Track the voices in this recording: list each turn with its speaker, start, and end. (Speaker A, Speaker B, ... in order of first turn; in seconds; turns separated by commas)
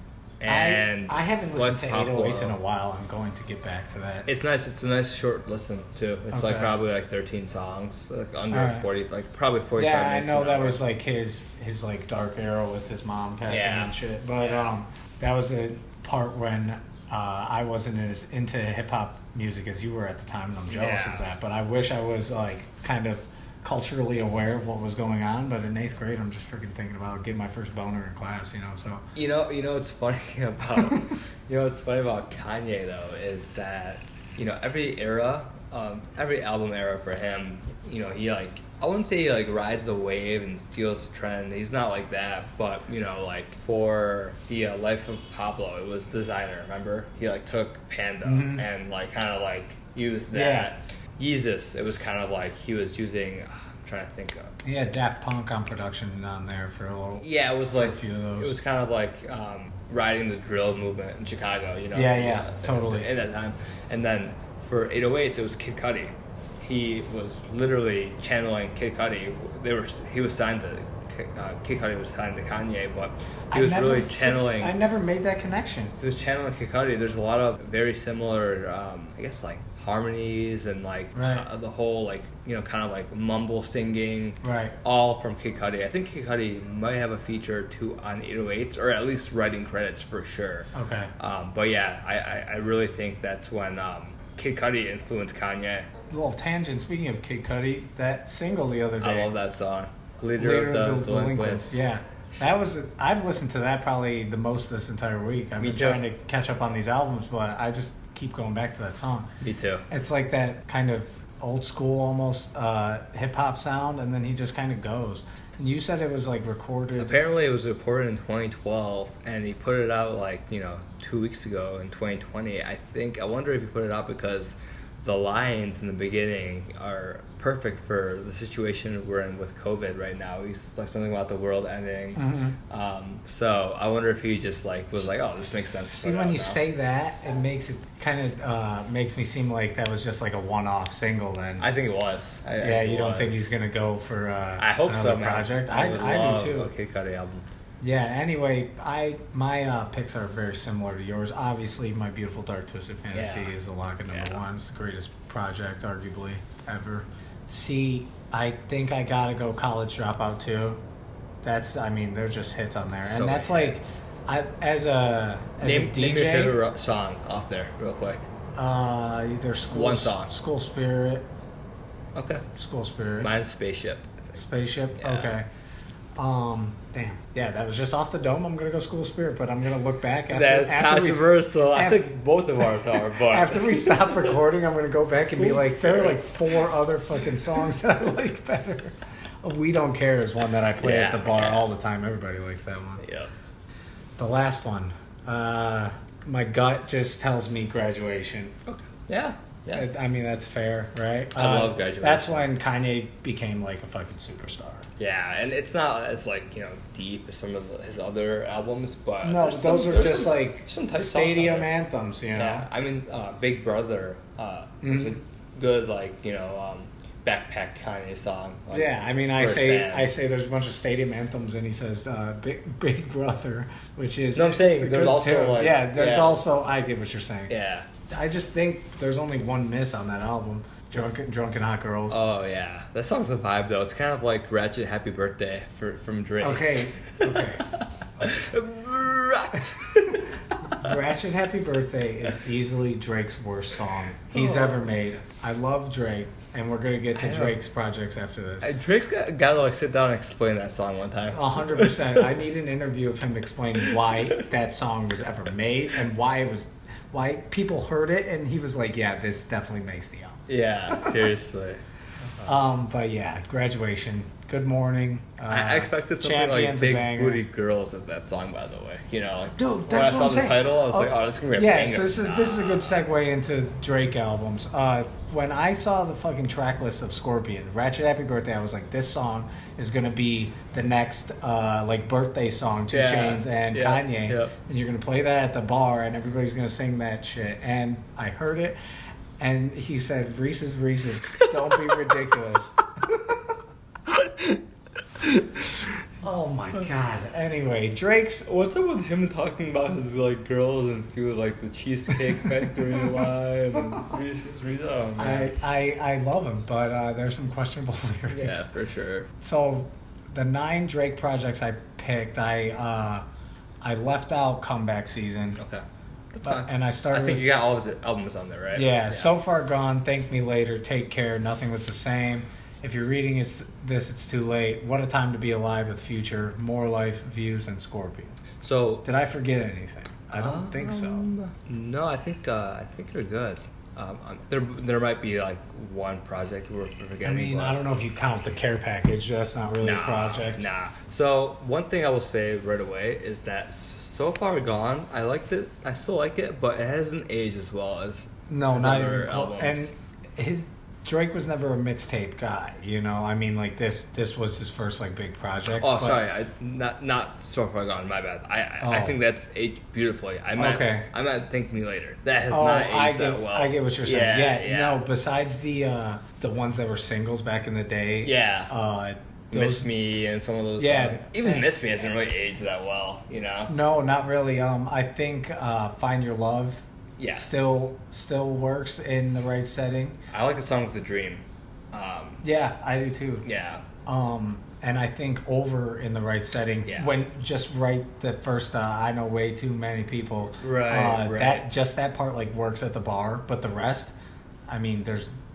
Speaker A: 0.4-2.6, Speaker B: 0.5-4.3, Speaker A: 4.2-10.8, Speaker B: 6.3-6.8, Speaker B: 8.5-8.9, Speaker B: 9.8-29.1, Speaker A: 13.5-14.7, Speaker A: 20.7-21.3, Speaker A: 29.1-54.5, Speaker B: 48.2-48.7, Speaker B: 50.3-50.7, Speaker B: 54.6-58.5, Speaker A: 57.2-74.7, Speaker B: 61.9-63.1, Speaker B: 73.5-76.0, Speaker A: 76.0-95.9, Speaker B: 81.1-81.5, Speaker B: 84.4-84.7, Speaker B: 90.7-91.1, Speaker B: 96.1-99.3, Speaker A: 99.0-101.9, Speaker B: 100.4-109.3, Speaker A: 105.6-106.0, Speaker A: 109.4-109.8, Speaker B: 109.9-117.2, Speaker A: 117.0-136.6, Speaker B: 132.2-132.6, Speaker B: 136.0-141.7, Speaker A: 141.6-143.6, Speaker B: 142.6-146.7, Speaker A: 144.6-147.4, Speaker B: 147.8-160.8, Speaker A: 153.1-153.5, Speaker A: 154.1-154.4, Speaker B: 161.4-166.6, Speaker A: 163.1-164.0, Speaker A: 165.6-168.2, Speaker B: 168.6-171.3, Speaker A: 169.7-170.3, Speaker A: 172.1-172.4, Speaker B: 172.5-173.3, Speaker A: 173.2-174.4, Speaker B: 174.3-175.5, Speaker A: 175.0-175.3, Speaker B: 176.2-182.2, Speaker A: 180.3-184.4, Speaker B: 182.8-193.0, Speaker A: 185.1-186.6, Speaker A: 190.8-191.7, Speaker A: 193.0-193.3, Speaker B: 194.2-198.6, Speaker A: 198.7-199.9, Speaker B: 199.7-204.9, Speaker A: 201.3-202.5, Speaker A: 205.0-211.7, Speaker B: 209.2-212.7, Speaker A: 212.3-220.1, Speaker B: 214.8-215.2, Speaker B: 218.7-227.5, Speaker A: 224.3-226.4, Speaker A: 227.5-227.9, Speaker B: 228.1-232.2, Speaker A: 232.1-240.9, Speaker B: 236.4-237.7, Speaker B: 240.7-248.7, Speaker A: 244.3-244.8, Speaker A: 247.2-247.6, Speaker A: 248.6-252.3, Speaker B: 251.3-261.1, Speaker A: 253.8-254.2, Speaker A: 260.5-261.8, Speaker B: 262.4-267.4, Speaker A: 265.5-273.0, Speaker B: 269.5-288.8, Speaker A: 282.9-284.5, Speaker B: 289.4-292.8, Speaker A: 291.7-292.1, Speaker A: 294.1-294.6, Speaker A: 295.2-295.9, Speaker B: 296.2-298.5, Speaker A: 298.5-305.5, Speaker B: 305.2-308.7, Speaker A: 308.3-309.3, Speaker B: 309.4-313.2, Speaker B: 313.8-315.6, Speaker A: 315.6-319.4, Speaker B: 316.4-317.4, Speaker B: 318.7-328.4, Speaker A: 328.6-329.0, Speaker B: 329.0-331.3, Speaker A: 330.3-337.8, Speaker B: 337.2-340.6, Speaker A: 339.8-349.9, Speaker B: 348.5-356.2, Speaker A: 355.8-365.0, Speaker B: 358.8-359.2, Speaker B: 360.5-361.1, Speaker B: 362.5-369.9, Speaker A: 368.2-368.7, Speaker A: 369.5-373.7, Speaker B: 370.8-371.7, Speaker B: 373.7-380.2, Speaker A: 377.2-377.8, Speaker A: 380.3-382.4, Speaker B: 382.4-383.4, Speaker A: 383.4-383.8, Speaker B: 384.1-394.1, Speaker A: 386.9-387.1, Speaker A: 390.6-391.7, Speaker B: 394.7-395.3